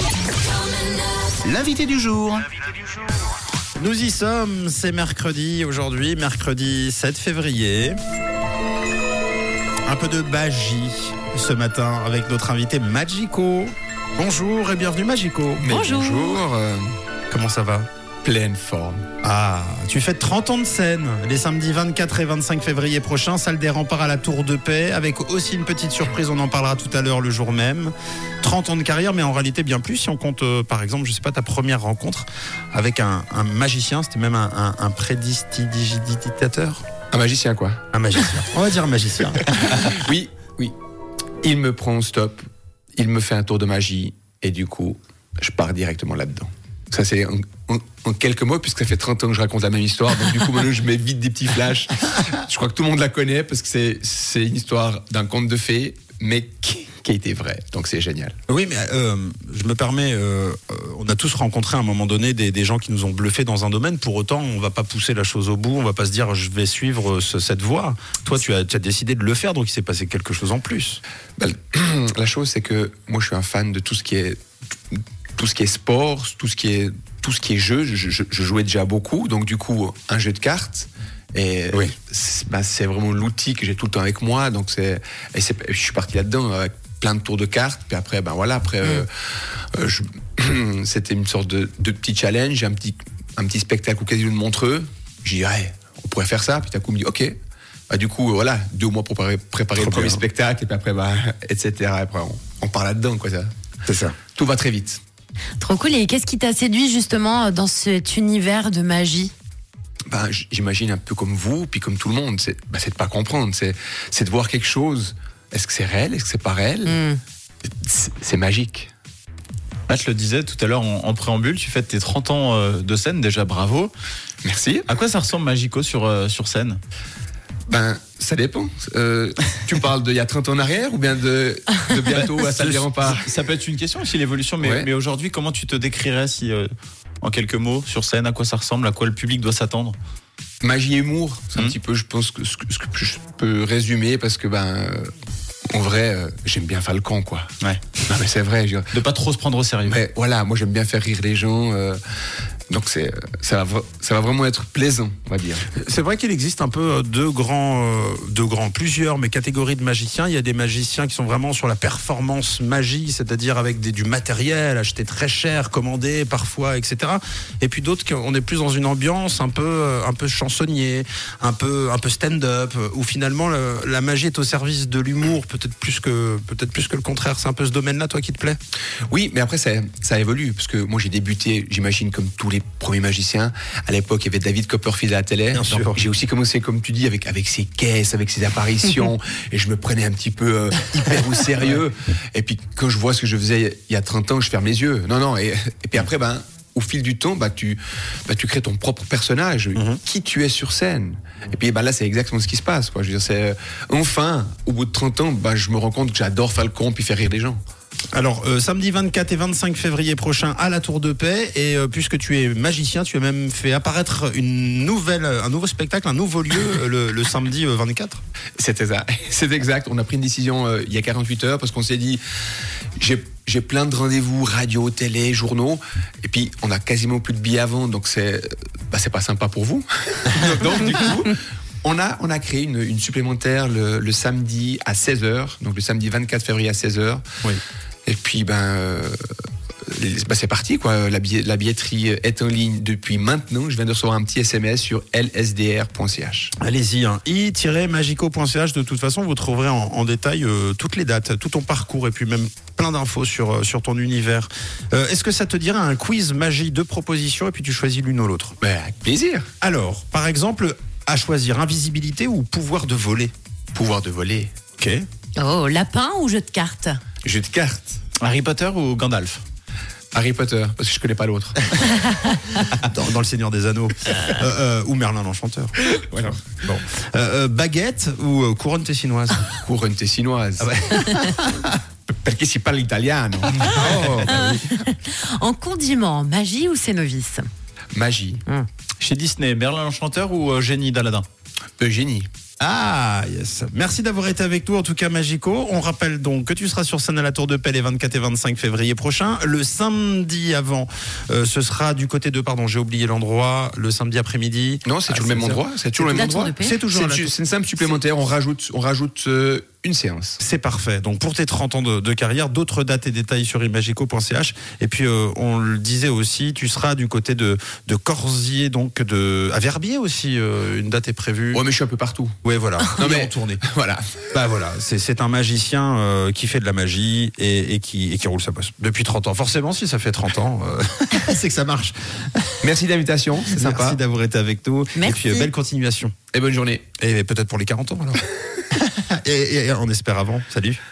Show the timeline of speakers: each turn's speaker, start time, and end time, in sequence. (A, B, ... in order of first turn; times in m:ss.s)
0:00.6-0:01.0 A
0:03.8-0:08.0 B
0:09.9-0:15.6 B
0:15.6-0:16.9 C
0:15.7-0:16.4 A
0:17.3-0:17.9 B
0:18.2-0:19.1 C
0:19.2-0:36.8 B
0:37.1-0:37.8 C
0:37.9-0:39.9 B
0:39.5-0:40.8 C
0:41.4-0:42.4 C
0:43.0-0:58.4 C
0:58.5-1:11.0 B
1:11.4-1:14.4 C
1:14.9-1:37.4 C
1:37.9-1:43.5 C
1:39.8-1:40.2 B
1:43.9-1:44.2 B
1:44.3-1:45.0 C
1:45.6-1:49.3 A
1:50.1-1:57.0 C
1:56.9-1:57.2 A
1:57.8-1:58.9 C
1:59.9-2:03.9 D
2:04.4-2:04.9 C
2:04.9-2:06.8 D
2:07.7-2:13.3 C
2:12.1-2:16.7 D
2:14.6-2:14.9 C
2:17.2-2:20.0 D
2:20.6-2:25.1 C
2:25.7-2:27.5 C
2:28.1-2:28.9 C
2:28.9-2:30.0 D
2:29.9-2:32.0 C
2:32.7-2:35.6 C
2:35.6-2:58.6 B
2:59.1-3:27.6 C
3:05.5-3:06.0 B
3:19.8-3:20.0 B
3:28.1-3:38.2 B
3:38.6-3:42.2 C
3:43.0-3:57.2 C
3:58.1-3:59.2 C
3:59.9-4:06.5 C
4:06.6-4:18.6 B
4:18.6-4:19.5 C
4:19.6-4:23.3 B
4:23.7-4:24.5 C
4:24.8-4:25.1 B
4:25.4-4:27.0 A
4:27.2-4:28.0 C
4:28.2-4:29.4 D
4:30.1-4:31.8 C
4:32.0-4:32.3 A
4:32.7-4:39.6 B
4:36.1-4:36.4 C
4:39.6-4:40.8 C
4:40.6-4:41.7 B
4:42.1-4:44.7 C
4:43.6-4:44.6 B
4:44.3-4:47.4 A
4:47.9-4:48.4 C
4:49.0-4:51.3 D
4:51.8-4:52.3 C
4:52.6-5:07.3 B
5:04.8-5:10.4 C
5:06.1-5:06.8 A
5:10.4-5:21.6 B
5:21.5-5:22.4 C
5:22.4-5:23.6 B
5:23.0-5:24.3 C
5:24.3-5:32.6 B
5:32.6-5:34.0 C
5:33.5-5:36.1 B
5:35.0-5:35.5 A
5:36.3-5:36.9 C
5:37.0-5:40.8 B